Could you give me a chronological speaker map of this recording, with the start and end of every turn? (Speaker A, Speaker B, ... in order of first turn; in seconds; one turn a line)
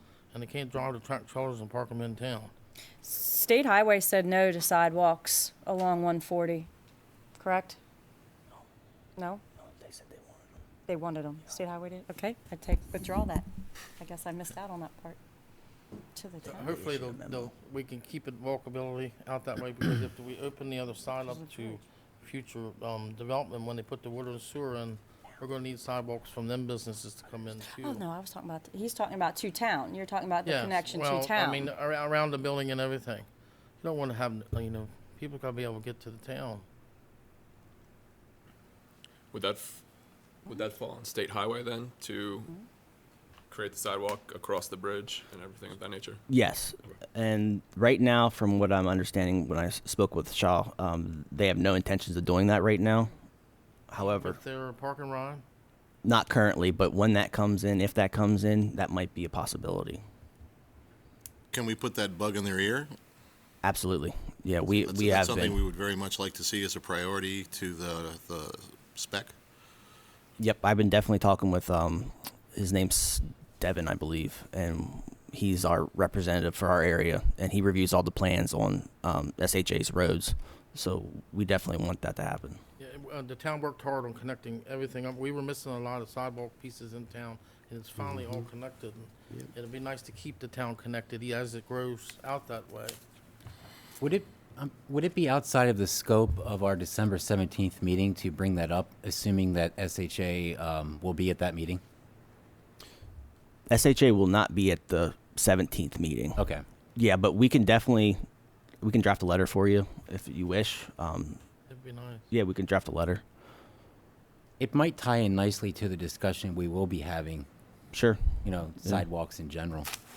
Speaker A: 0.3-2.5
Speaker B: 3.0-6.7
Speaker B: 7.4-7.8
Speaker B: 9.2-9.4
Speaker C: 9.8-10.2
Speaker B: 10.9-13.4
Speaker B: 14.0-15.2
Speaker B: 16.1-16.8
Speaker A: 16.4-28.0
Speaker C: 16.7-17.5
Speaker B: 21.1-21.8
Speaker B: 27.7-31.7
Speaker A: 30.4-33.3
Speaker A: 33.8-36.6
Speaker D: 39.3-39.8
Speaker D: 40.5-42.5
Speaker D: 43.5-46.2
Speaker C: 46.3-53.1
Speaker C: 53.9-54.4
Speaker A: 54.0-55.4
Speaker C: 56.0-60.0
Speaker E: 61.5-62.9
Speaker C: 63.6-65.6
Speaker E: 64.7-69.3
Speaker C: 70.4-82.6
Speaker A: 82.8-93.0
Speaker F: 94.0-101.8
Speaker C: 103.7-106.4
Speaker F: 106.3-106.6
Speaker C: 107.0-108.2
Speaker C: 108.8-111.4
Speaker A: 111.7-112.2
Speaker C: 112.3-113.2
Speaker F: 114.6-117.5
Speaker C: 117.9-119.0
Speaker F: 118.4-119.9